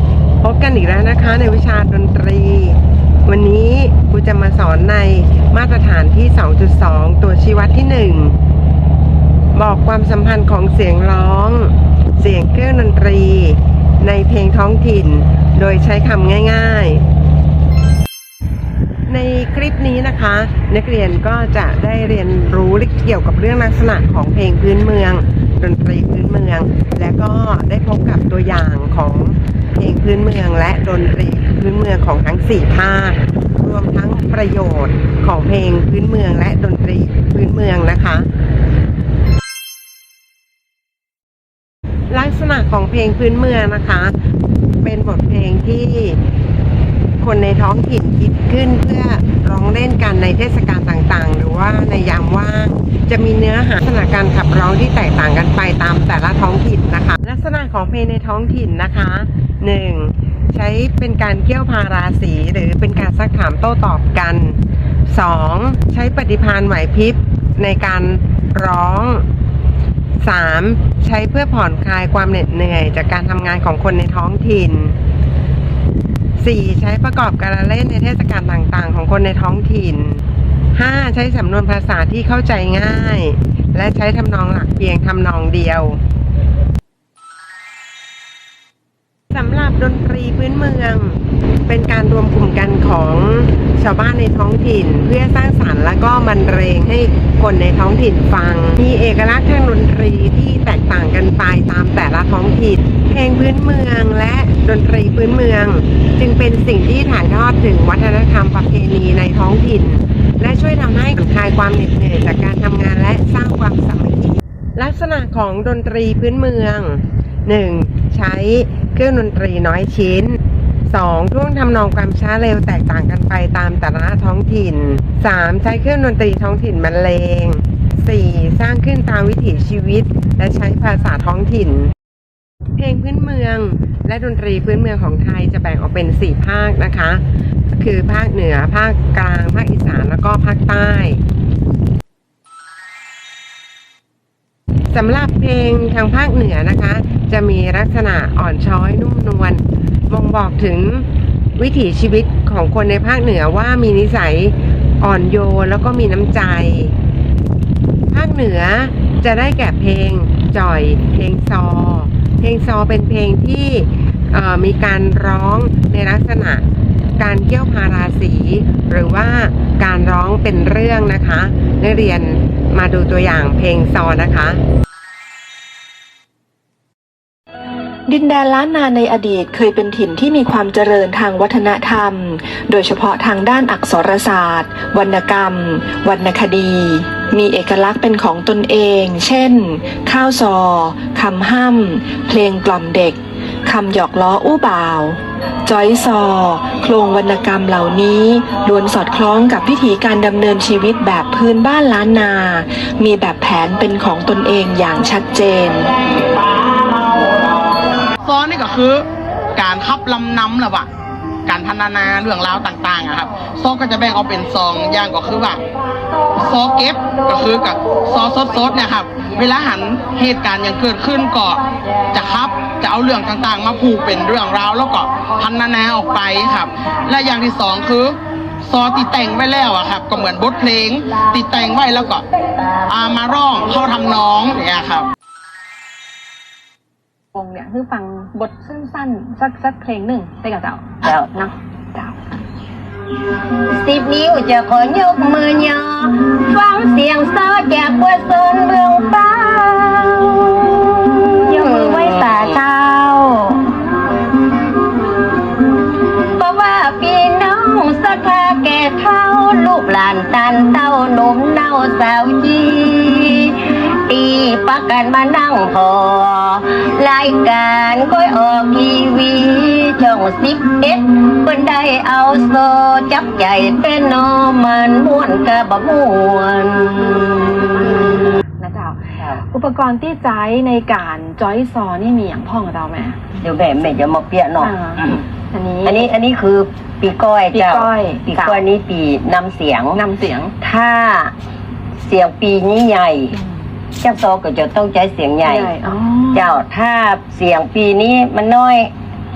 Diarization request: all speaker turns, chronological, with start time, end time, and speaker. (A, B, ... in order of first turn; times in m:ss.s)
0:00.4-0:08.4 A
0:09.5-0:17.0 A
0:19.1-0:38.3 A
0:42.1-0:44.2 A
0:44.8-0:46.2 A
0:47.2-1:09.3 A
1:10.2-1:15.0 A
1:16.4-1:26.0 A
1:29.3-2:11.9 A
2:12.8-2:21.2 A
2:24.9-2:37.0 A
2:38.1-2:46.7 A
2:47.2-2:54.6 A
2:58.1-3:25.9 B
3:28.2-3:30.9 C
3:31.4-3:35.6 C
3:36.3-3:52.3 C
3:52.8-3:55.1 C
3:57.3-4:02.3 D
4:03.7-4:10.8 E
4:11.4-4:12.6 E
4:11.4-4:13.6 D
4:16.4-4:37.7 E
4:37.2-4:43.3 D
4:43.4-4:44.8 E
4:44.6-4:46.1 D
4:45.8-4:50.0 E
4:47.5-4:48.6 D
4:50.0-4:50.5 D
4:50.6-4:51.3 E
4:52.0-4:53.3 E
4:54.0-4:55.7 E
4:55.4-4:56.5 D
4:56.3-4:58.9 E